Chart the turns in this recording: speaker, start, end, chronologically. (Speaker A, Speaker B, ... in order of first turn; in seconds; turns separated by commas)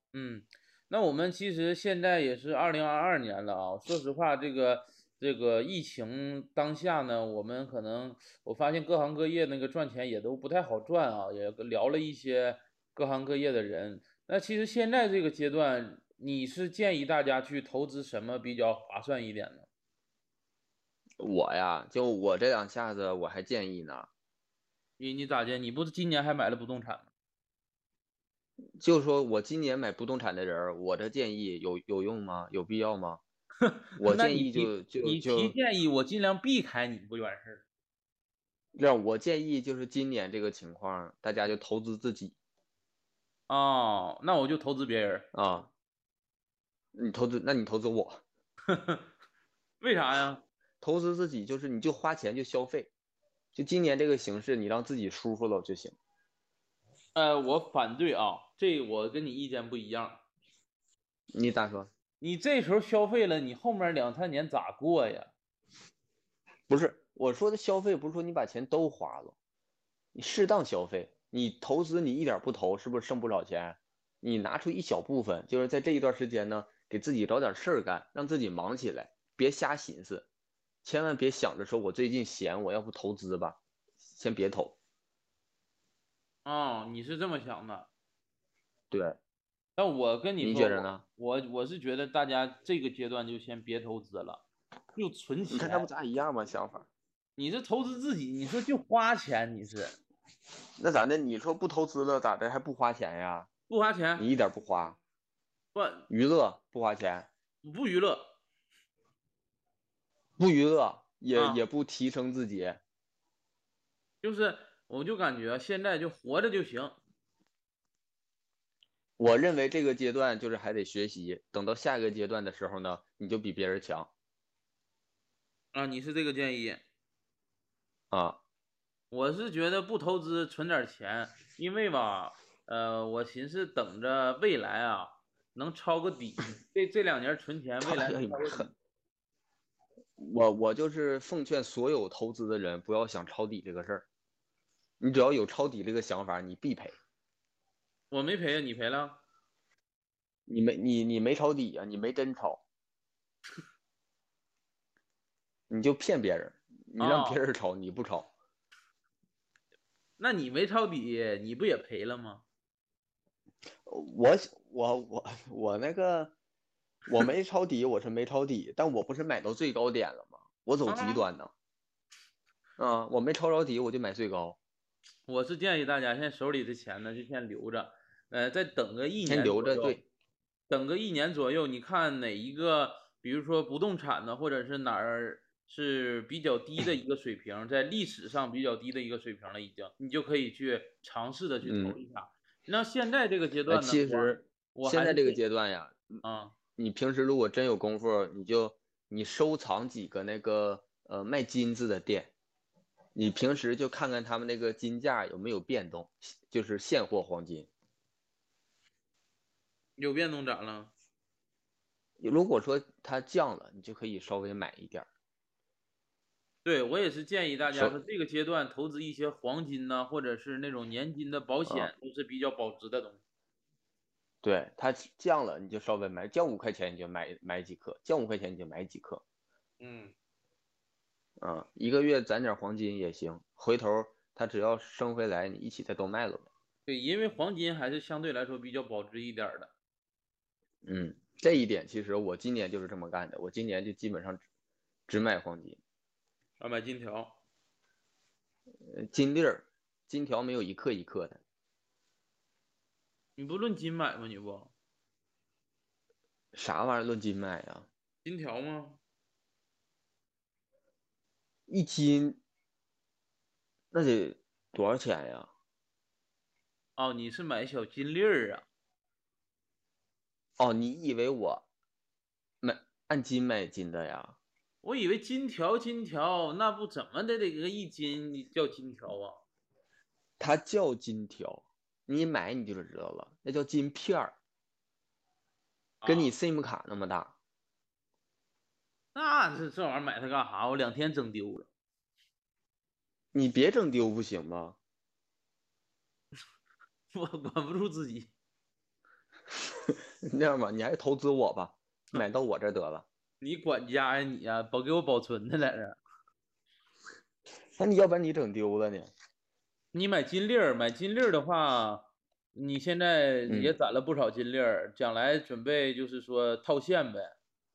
Speaker A: 0.1-19.7, Speaker B: 21.2-24.1, Speaker A: 25.0-27.1, Speaker B: 28.8-33.2, Speaker A: 33.6-37.6, Speaker B: 34.0-35.5, Speaker B: 38.7-42.3, Speaker A: 43.5-45.3, Speaker B: 45.3-45.7, Speaker B: 46.9-48.2, Speaker A: 48.7-49.1, Speaker A: 49.8-50.4, Speaker B: 50.8-52.9, Speaker B: 53.5-56.0, Speaker A: 57.1-60.2, Speaker B: 61.3-61.9, Speaker A: 62.2-65.3, Speaker B: 66.7-69.3, Speaker B: 70.1-80.3, Speaker B: 80.8-83.6, Speaker B: 84.1-84.8, Speaker A: 86.4-87.9, Speaker B: 88.9-89.2, Speaker A: 89.8-95.9, Speaker B: 90.4-91.0, Speaker B: 95.5-96.9, Speaker A: 97.4-100.0, Speaker B: 100.8-103.5, Speaker A: 103.7-104.3, Speaker B: 104.2-105.0, Speaker A: 105.7-106.1, Speaker B: 106.1-107.3, Speaker A: 107.6-108.4, Speaker B: 110.4-112.8, Speaker A: 111.3-111.6, Speaker A: 114.2-117.0, Speaker B: 119.2-124.1, Speaker A: 125.7-126.8, Speaker B: 128.1-128.4, Speaker A: 129.1-138.7, Speaker B: 137.8-138.7, Speaker B: 140.2-144.1, Speaker B: 145.0-146.9, Speaker A: 148.1-149.2, Speaker B: 150.5-152.6, Speaker B: 155.7-158.3, Speaker A: 157.0-157.4, Speaker A: 160.2-162.4, Speaker B: 163.9-166.3, Speaker B: 167.1-171.5, Speaker A: 170.9-171.3, Speaker B: 172.8-174.6, Speaker A: 175.3-180.0, Speaker B: 179.3-180.0, Speaker A: 180.7-195.4, Speaker B: 191.6-192.0, Speaker B: 193.7-196.2, Speaker A: 196.2-196.6, Speaker B: 196.8-202.3, Speaker B: 203.1-207.7, Speaker A: 210.0-210.9, Speaker B: 212.2-215.1, Speaker A: 216.6-223.2, Speaker B: 217.7-217.9, Speaker B: 224.4-229.2, Speaker A: 229.8-230.1, Speaker B: 231.4-236.5, Speaker A: 236.9-239.7, Speaker B: 240.8-244.4, Speaker B: 245.1-245.8, Speaker A: 246.6-247.4, Speaker B: 248.9-251.4, Speaker A: 253.4-254.7, Speaker B: 256.5-257.9, Speaker A: 258.2-259.0, Speaker B: 261.7-262.4, Speaker B: 263.9-265.5, Speaker A: 267.0-268.6, Speaker B: 270.6-271.6, Speaker B: 272.6-274.4, Speaker A: 274.8-279.4, Speaker B: 280.4-284.4, Speaker A: 286.0-286.3, Speaker B: 286.1-287.3, Speaker A: 289.1-291.7, Speaker B: 293.3-294.8, Speaker A: 297.1-298.3, Speaker B: 299.9-303.1, Speaker A: 303.4-306.0, Speaker B: 307.8-309.1, Speaker A: 309.9-317.3, Speaker B: 313.4-313.7